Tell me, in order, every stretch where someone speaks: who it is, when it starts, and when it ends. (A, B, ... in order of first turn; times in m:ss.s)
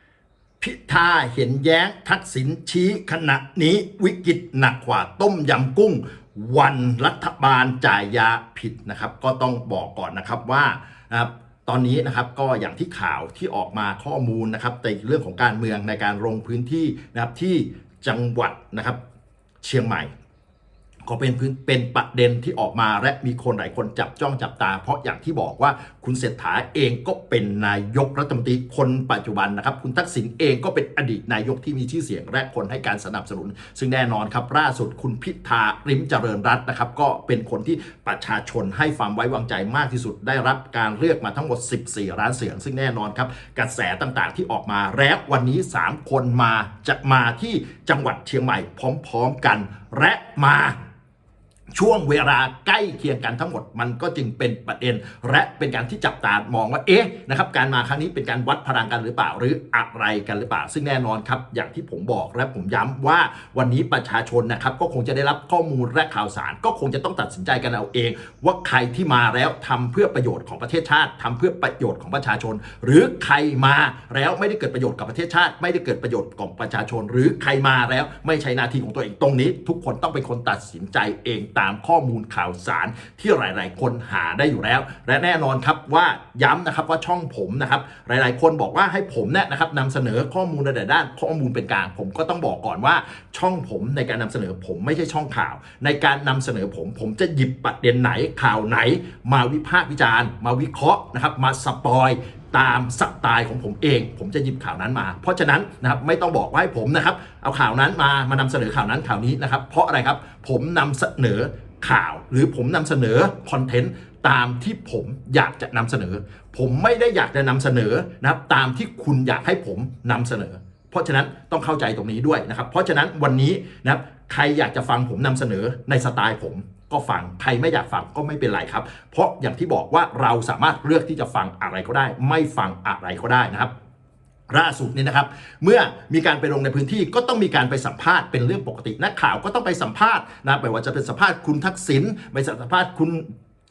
0:00.6-0:19.0 A
0:19.6-0:20.1 A
0:21.0-0:50.8 A
0:51.7-2:13.7 A
2:14.5-2:23.2 A